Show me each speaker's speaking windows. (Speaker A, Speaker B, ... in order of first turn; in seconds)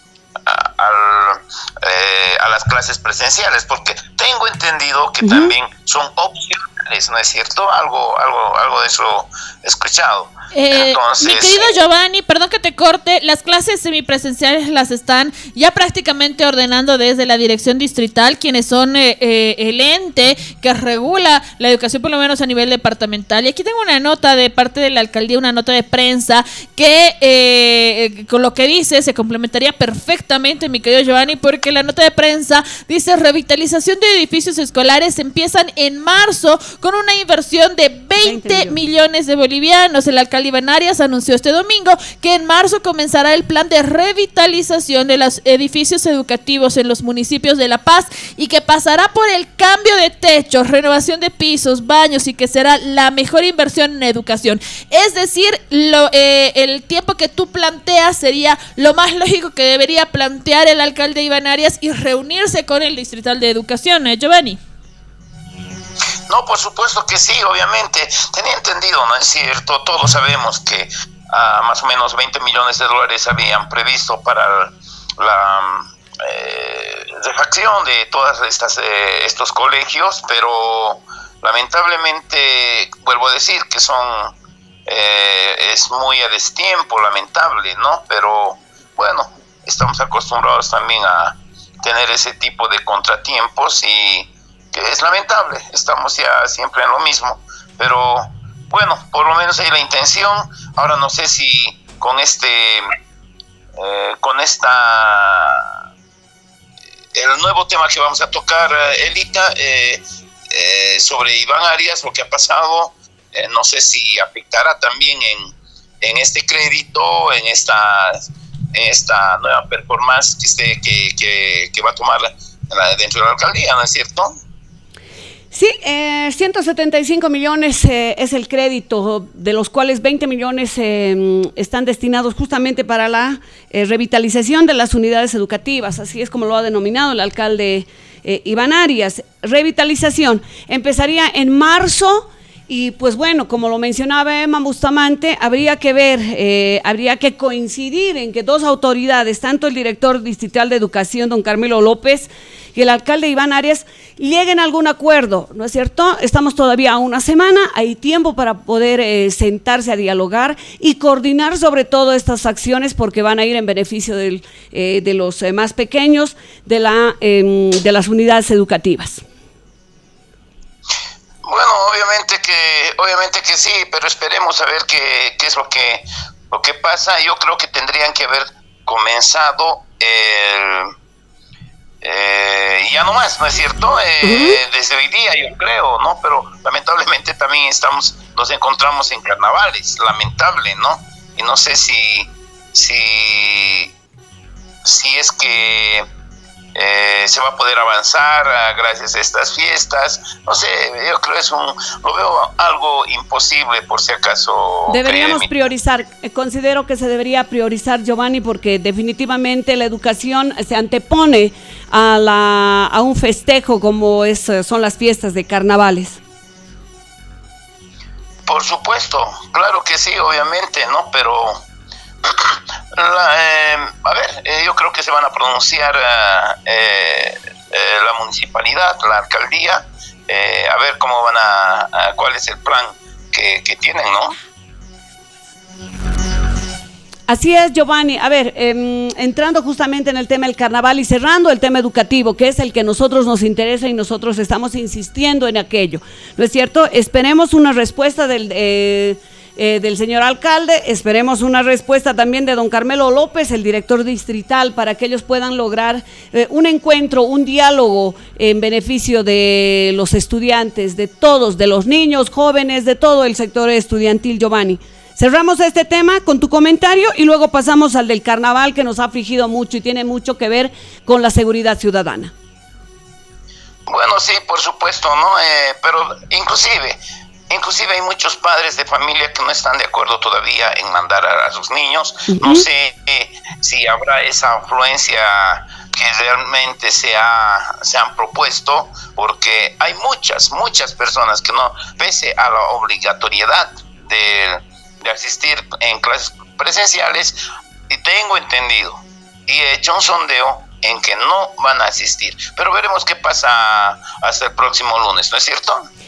Speaker A: 0.5-11.8, 66.3-84.3, 84.9-102.9, 103.8-105.7, 107.1-124.3, 171.4-180.9, 182.0-193.9, 194.8-196.1, 196.7-205.5, 218.4-221.6, 222.2-234.3, 273.9-297.4, 297.9-305.9
Speaker B: 5.2-5.5, 38.2-38.8, 125.5-169.2, 184.2-184.6, 204.9-216.2, 237.3-272.3, 282.3-282.6
Speaker C: 10.5-64.6